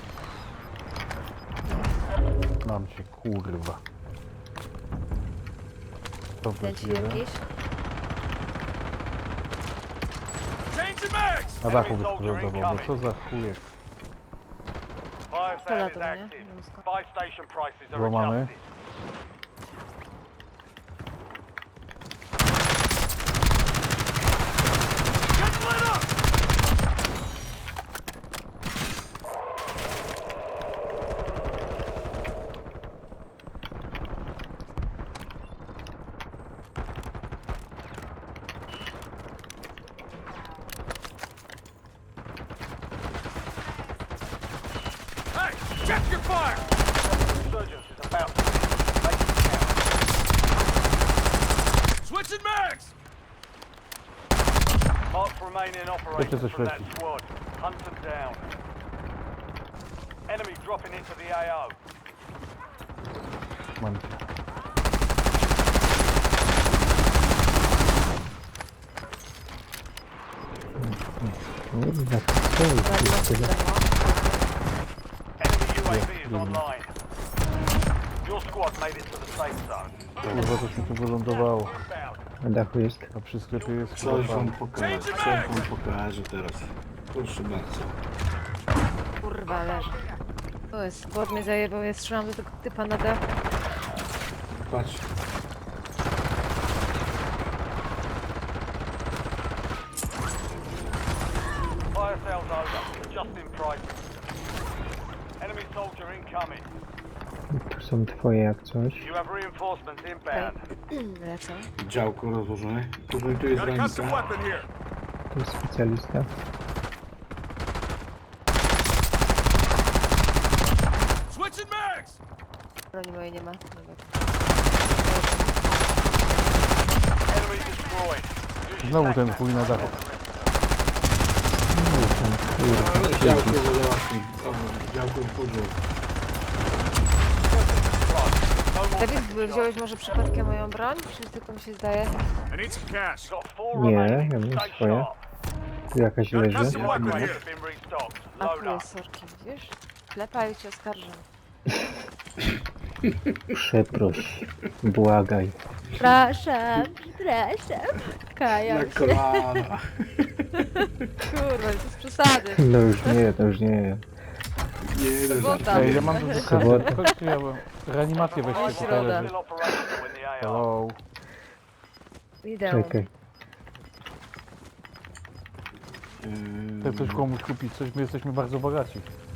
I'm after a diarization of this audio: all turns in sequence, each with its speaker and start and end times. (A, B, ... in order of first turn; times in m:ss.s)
0:02.6-0:03.8 A
0:06.4-0:07.2 A
0:06.6-0:07.5 B
0:10.8-0:11.5 C
0:11.6-0:13.6 A
0:11.6-0:13.0 D
0:15.3-0:18.7 D
0:15.6-0:16.8 B
0:17.9-0:18.5 A
0:45.5-0:46.6 C
0:47.1-0:50.0 D
0:52.0-0:52.9 C
0:55.1-0:58.5 D
0:56.2-0:56.9 A
1:00.3-1:01.8 D
1:03.8-1:04.2 A
1:10.8-1:13.5 E
1:12.8-1:14.5 B
1:15.4-1:16.9 D
1:15.9-1:16.6 A
1:18.2-1:20.1 D
1:20.2-1:20.5 F
1:20.2-1:21.8 A
1:21.3-1:22.2 D
1:22.4-1:23.1 E
1:23.1-1:24.6 A
1:23.5-1:24.6 D
1:23.9-1:28.0 F
1:25.1-1:25.4 C
1:25.1-1:25.7 D
1:29.2-1:30.1 B
1:30.7-1:33.2 B
1:34.7-1:35.1 F
1:41.9-1:43.9 D
1:45.4-1:46.7 D
1:47.5-1:49.1 E
1:49.0-1:50.6 D
1:50.3-1:51.7 B
1:51.8-1:54.5 F
1:53.5-1:54.7 C
1:55.3-1:56.3 E
2:01.3-2:02.2 C
2:02.9-2:04.0 B
2:04.8-2:05.6 B
2:07.3-2:10.4 D
2:08.8-2:09.9 A
2:11.7-2:13.6 E
2:12.7-2:15.8 F
2:17.5-2:19.8 D
2:19.0-2:22.2 B
2:22.5-2:23.3 C
2:23.3-2:25.2 D
2:23.7-2:25.1 E
2:25.9-2:26.9 E
2:26.3-2:28.9 D
2:26.5-2:27.4 C
2:26.6-2:27.4 F
2:28.4-2:31.2 B
2:33.5-2:35.6 E
2:36.0-2:39.6 B
2:38.5-2:40.6 F
2:40.6-2:43.2 B
2:42.5-2:44.0 E
2:44.8-2:46.2 F
2:45.3-2:47.0 B
2:45.7-2:49.3 A
2:46.3-2:47.1 E
2:48.4-2:50.7 D
2:48.5-2:49.3 B
2:50.4-2:51.0 A
2:52.4-2:53.0 B
2:52.6-2:53.1 E
2:56.2-2:57.3 F
2:56.8-2:59.1 A